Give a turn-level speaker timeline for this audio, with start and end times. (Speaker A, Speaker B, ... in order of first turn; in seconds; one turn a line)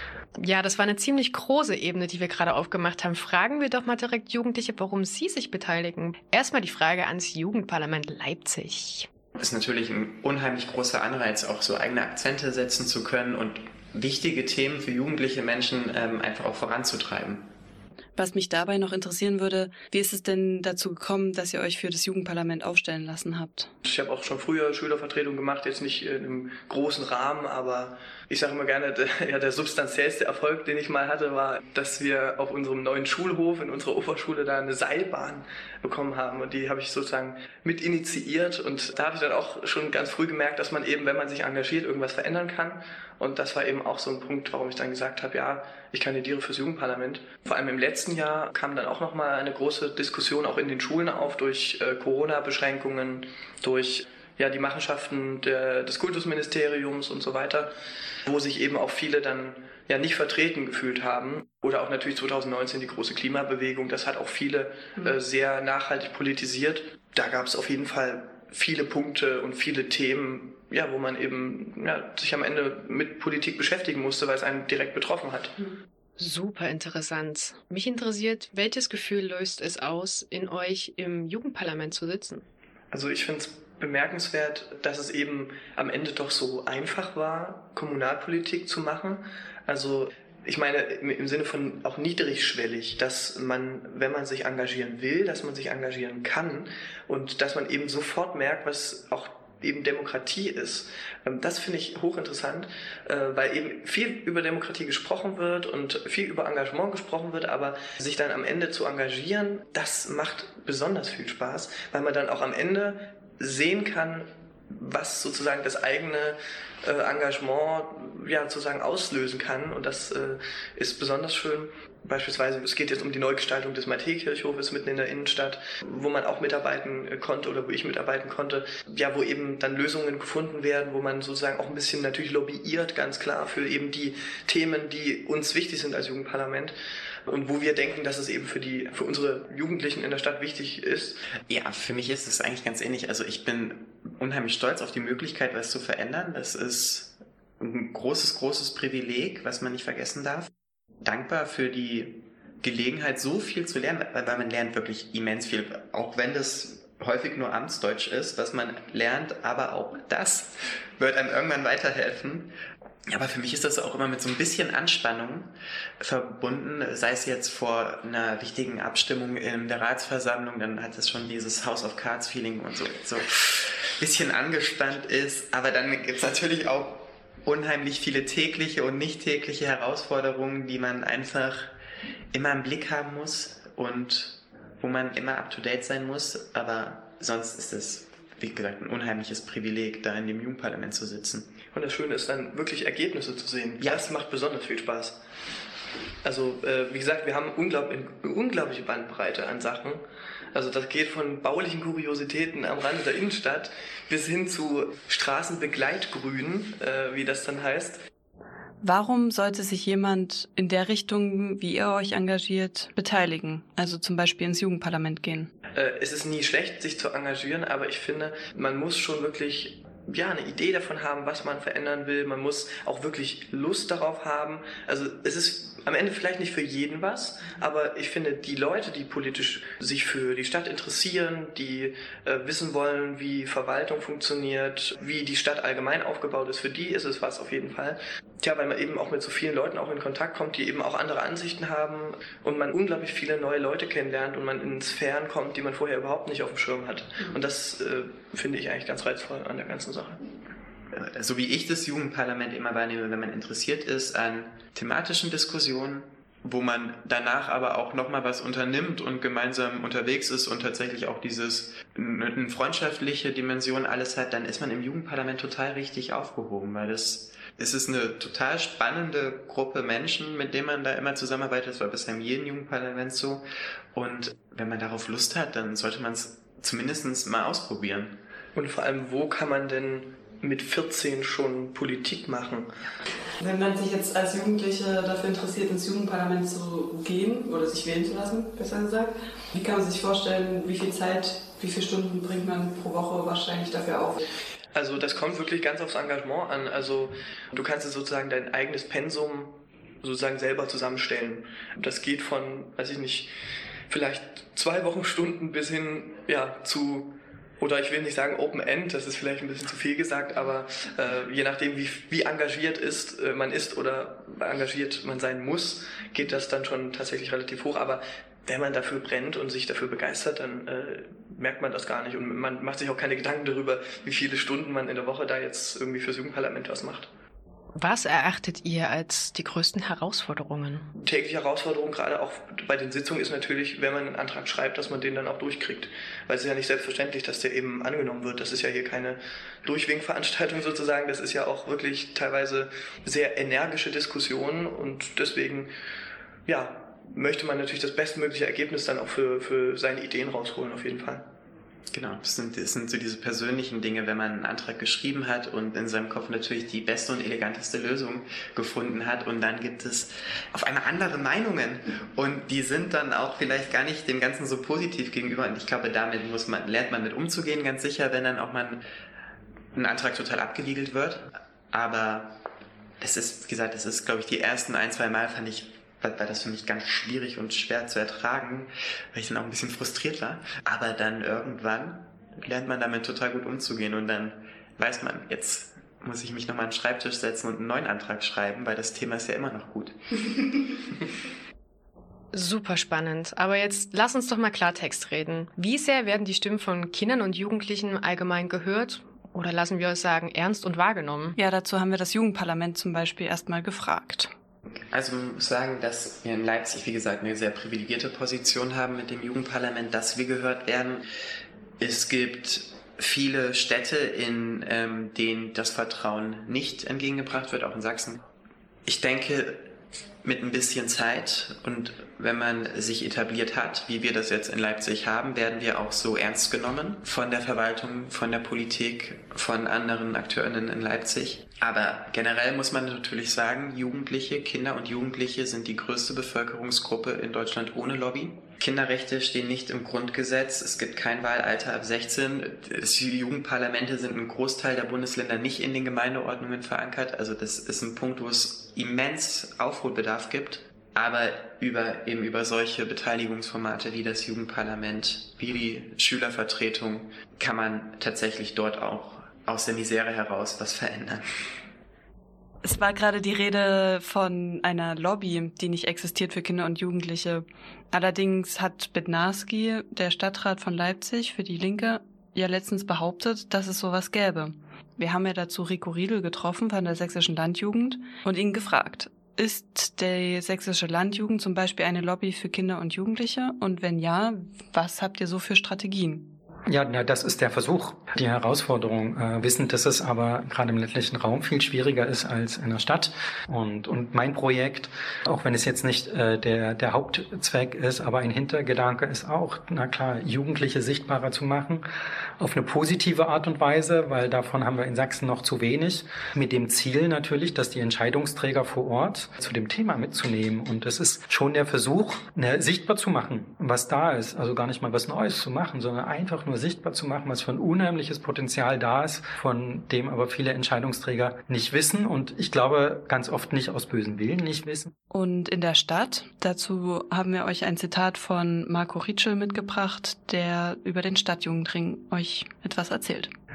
Speaker A: 0.4-9.1
Speaker B: 9.4-17.5
Speaker C: 18.1-23.7
Speaker D: 23.9-57.7
Speaker D: 58.3-75.5
Speaker A: 76.2-82.4
Speaker D: 82.9-136.7
Speaker D: 137.3-141.2
Speaker B: 141.5-150.5
Speaker B: 151.0-162.5
Speaker B: 163.1-181.7
Speaker B: 182.3-191.5
Speaker D: 191.7-195.2
Speaker B: 193.8-194.1
Speaker D: 196.2-200.0
Speaker D: 200.5-208.0
Speaker C: 208.8-215.5
Speaker D: 215.7-250.2
Speaker B: 250.9-278.2
Speaker D: 278.5-282.7
Speaker C: 283.4-294.2
Speaker D: 294.7-303.3
Speaker D: 303.9-327.1
Speaker A: 327.8-330.9
Speaker D: 330.9-345.7
Speaker D: 346.5-351.2
Speaker B: 351.9-368.8
Speaker B: 369.8-372.4
Speaker B: 373.0-389.9
Speaker A: 392.3-401.4
Speaker C: 401.4-404.3
Speaker B: 404.9-411.0
Speaker B: 411.8-418.2
Speaker B: 418.9-419.7
Speaker B: 420.2-461.2
Speaker C: 462.6-486.3
Speaker E: 486.7-501.9
Speaker E: 502.4-524.9
Speaker C: 525.1-533.3